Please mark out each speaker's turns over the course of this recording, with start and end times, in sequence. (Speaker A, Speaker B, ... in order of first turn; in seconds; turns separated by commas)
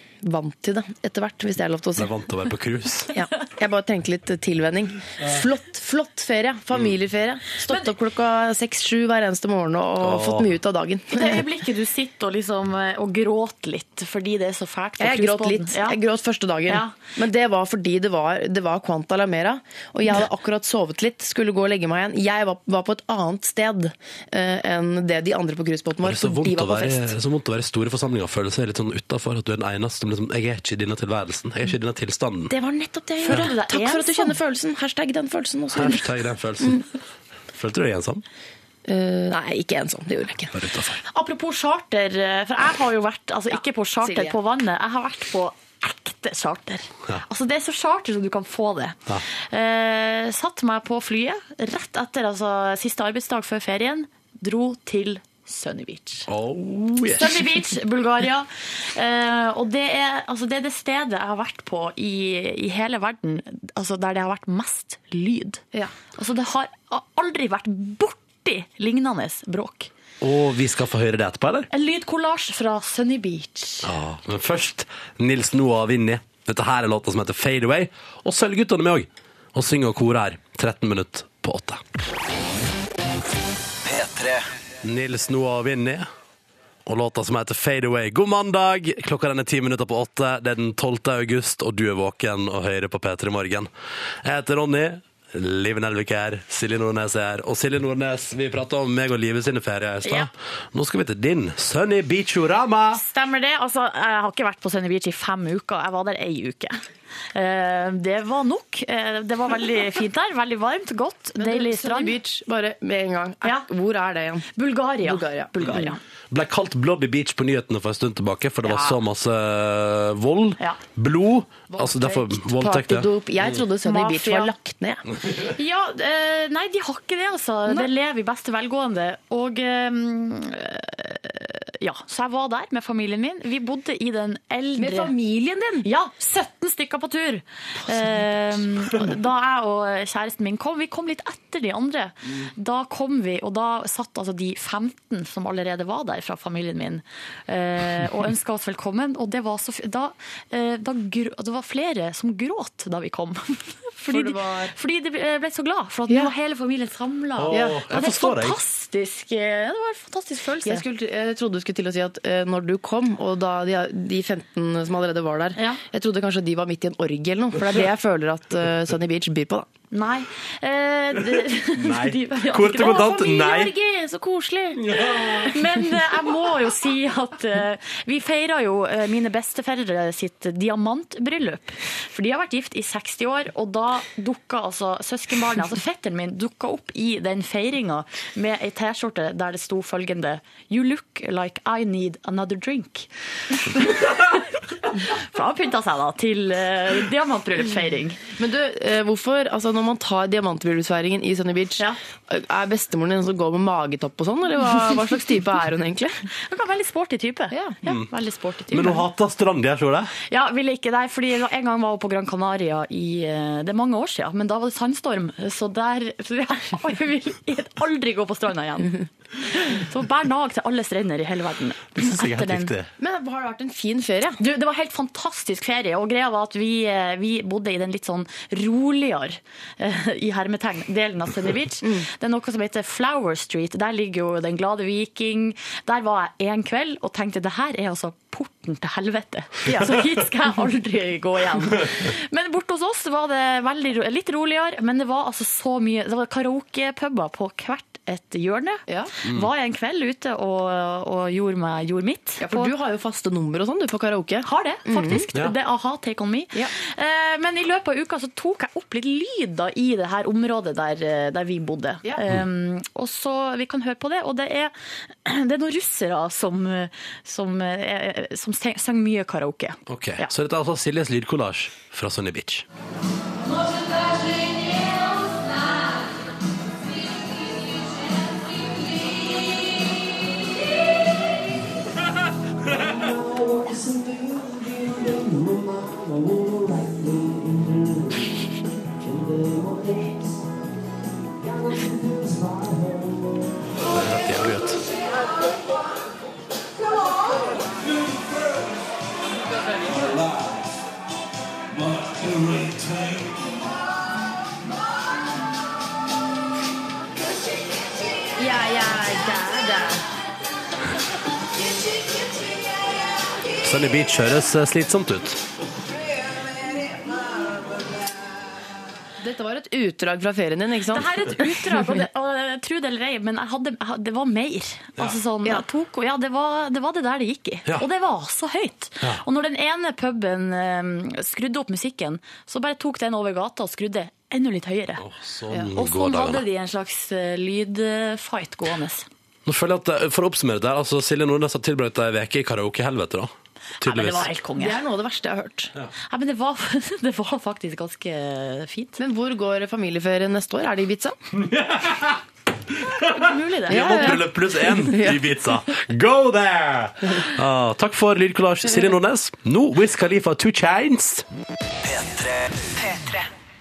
Speaker A: 0.2-2.1, Speaker B: 2.0-3.1, Speaker A: 3.1-11.4, Speaker B: 10.0-10.5, Speaker C: 11.1-16.0, Speaker A: 15.0-27.1, Speaker C: 16.7-16.9, Speaker B: 26.0-32.5, Speaker A: 32.5-36.1, Speaker C: 33.2-34.4, Speaker B: 35.7-36.8, Speaker B: 37.5-38.2, Speaker A: 38.9-40.5, Speaker B: 40.5-41.0, Speaker C: 41.1-56.3, Speaker A: 44.0-44.4, Speaker B: 56.3-57.5, Speaker C: 57.1-69.9, Speaker B: 70.2-71.7, Speaker C: 71.7-73.9, Speaker B: 73.8-81.8, Speaker D: 83.8-84.4, Speaker B: 84.8-86.1, Speaker B: 86.9-93.7, Speaker B: 94.2-103.0, Speaker C: 100.0-100.3, Speaker C: 102.9-106.8, Speaker C: 107.3-112.2, Speaker A: 111.4-114.5, Speaker C: 114.5-116.0, Speaker A: 115.0-115.9, Speaker B: 116.3-123.1, Speaker C: 118.7-119.0, Speaker A: 121.7-125.0, Speaker C: 123.8-124.5, Speaker C: 125.4-135.1, Speaker A: 134.8-135.9, Speaker C: 135.8-160.8, Speaker A: 154.1-154.8, Speaker B: 157.4-158.6, Speaker A: 157.5-157.8, Speaker A: 160.7-169.7, Speaker C: 165.6-165.8, Speaker C: 169.9-173.3, Speaker B: 171.3-173.7, Speaker A: 172.8-175.0, Speaker B: 174.8-175.6, Speaker C: 175.3-198.2, Speaker A: 198.4-206.2, Speaker C: 206.5-209.0, Speaker B: 208.7-210.1, Speaker C: 210.3-222.7, Speaker B: 222.0-222.9, Speaker A: 223.0-224.4, Speaker C: 224.4-252.7, Speaker A: 252.4-255.3, Speaker C: 254.4-264.7, Speaker C: 265.2-270.3, Speaker B: 269.9-272.7, Speaker B: 293.9-294.8, Speaker A: 308.4-310.0, Speaker B: 313.6-315.4, Speaker A: 319.2-321.6, Speaker C: 320.9-335.0, Speaker B: 335.0-336.4, Speaker C: 335.8-339.1, Speaker B: 339.5-344.3, Speaker C: 343.8-344.8, Speaker A: 344.6-345.7, Speaker C: 346.1-349.0, Speaker A: 349.0-351.2, Speaker B: 351.3-352.2, Speaker B: 352.7-361.2, Speaker C: 353.1-354.3, Speaker A: 353.7-355.2, Speaker D: 361.8-363.2